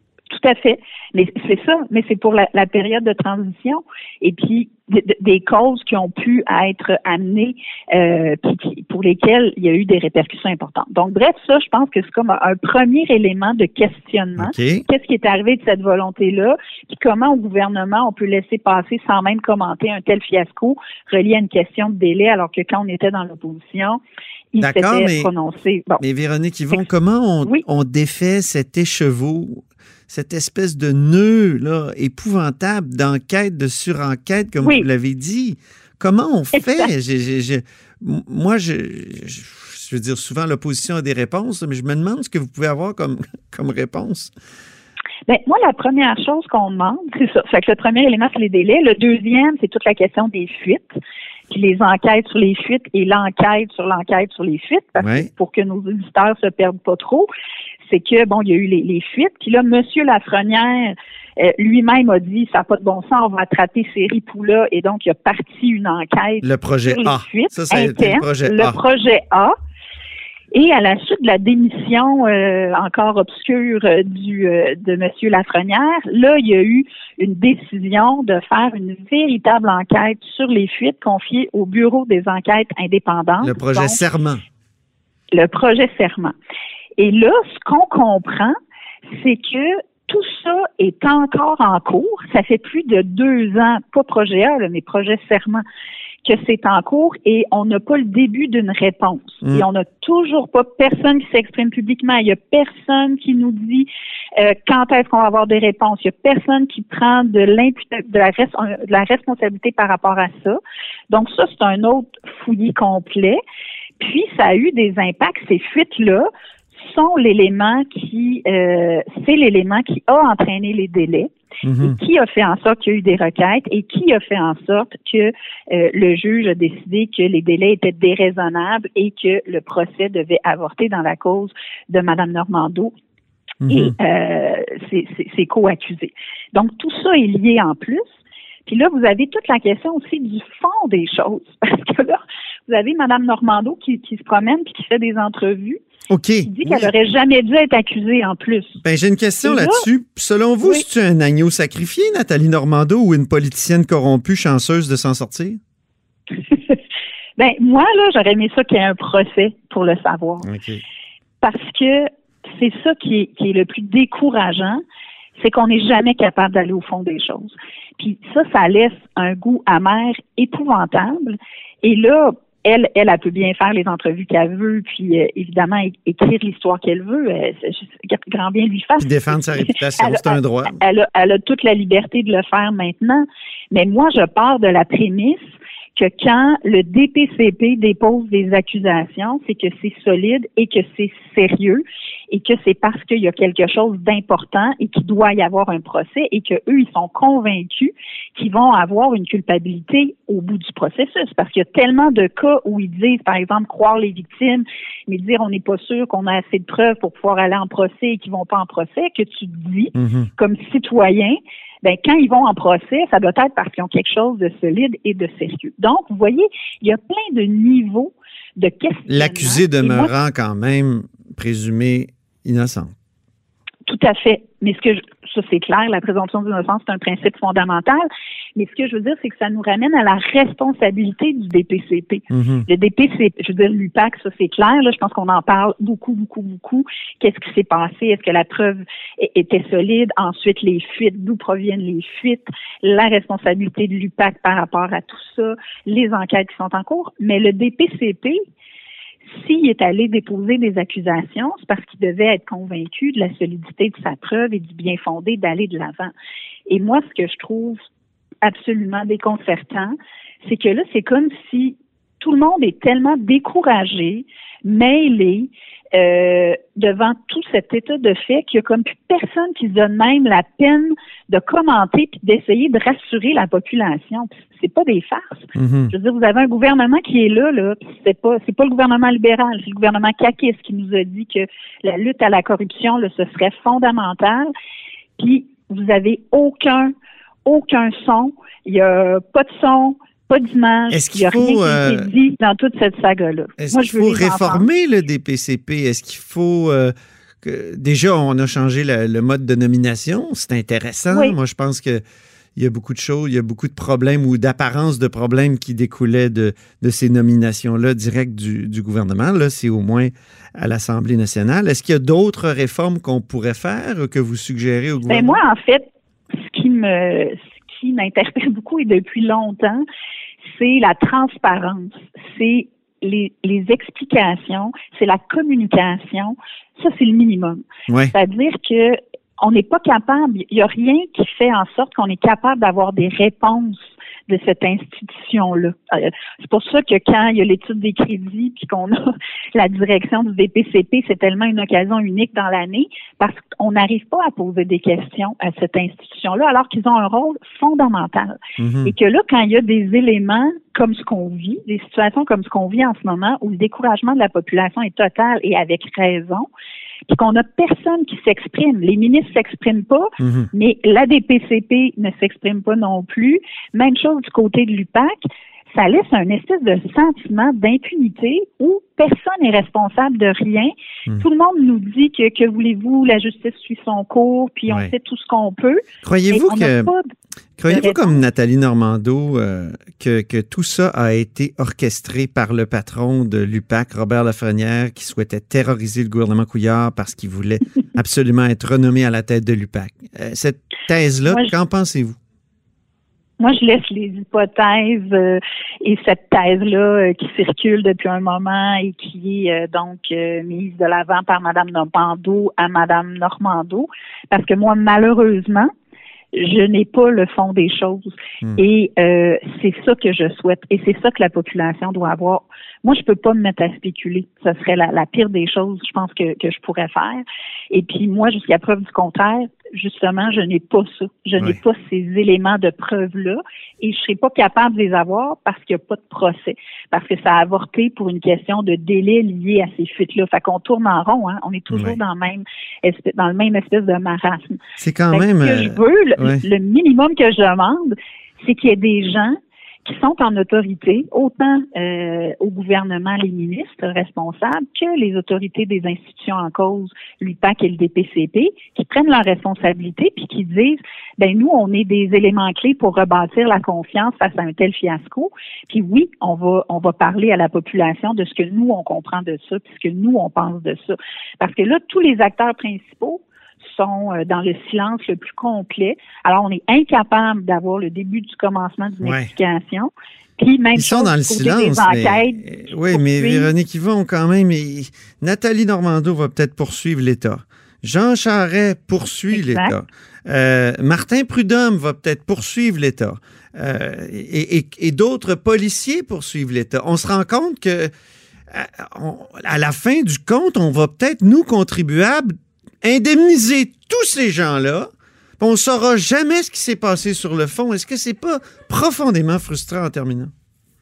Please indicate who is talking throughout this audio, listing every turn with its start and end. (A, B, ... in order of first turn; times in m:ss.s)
0:00.3-0:24.0 A
0:14.4-0:14.8 B
0:24.5-0:26.0 A
0:24.6-0:25.3 B
0:26.0-0:44.3 B
0:36.6-0:36.9 A
0:45.3-0:51.0 A
0:51.5-0:57.3 A
0:55.0-0:55.3 B
0:57.8-1:09.5 A
1:06.4-1:08.8 B
1:10.5-1:24.0 A
1:23.4-1:24.4 B
1:25.3-1:26.3 A
1:27.0-1:28.6 A
1:29.1-1:35.6 A
1:36.2-1:50.6 A
1:51.1-1:53.4 A
1:54.0-1:56.3 A
1:56.8-2:12.9 A
2:01.6-2:02.0 B
2:13.6-2:14.0 B
2:13.7-2:18.0 A
2:18.7-2:25.8 A
2:26.1-2:26.9 B
2:26.4-2:28.8 A
2:28.8-2:35.6 B
2:29.4-2:29.9 A
2:36.4-2:36.8 A
2:37.4-2:40.5 A
2:40.4-2:40.8 B
2:41.4-2:44.8 A
2:45.4-3:05.4 A
2:59.0-3:00.8 B
3:06.0-3:40.1 A
3:30.0-3:30.3 B
3:39.1-3:42.9 B
3:43.9-4:08.4 A
3:52.3-3:52.7 B
4:09.3-4:16.1 A
4:16.7-4:17.8 A
4:18.4-4:44.5 A
4:35.6-4:35.9 B
4:45.2-4:46.9 A
4:47.5-4:54.7 A
4:50.9-4:52.1 B
4:53.6-5:02.0 B
5:01.1-5:01.4 A
5:02.6-5:15.4 B
5:15.1-5:15.9 A
5:16.4-5:19.8 A
5:20.5-5:56.5 A
5:27.9-5:28.1 B
5:48.6-5:48.9 B
5:57.1-6:05.1 A
6:00.2-6:00.5 B
6:05.7-6:17.1 A
6:14.7-6:14.9 B
6:16.0-6:16.9 B
6:17.6-6:32.2 B
6:17.7-6:18.2 A
6:31.3-6:31.6 A
6:33.4-6:45.7 A
6:46.3-7:53.5 A
7:11.7-7:12.0 B
7:14.8-7:16.4 B
7:49.0-7:49.3 B
7:50.8-8:07.9 B
7:59.3-7:59.8 A
8:08.5-8:14.9 B
8:15.4-8:20.3 B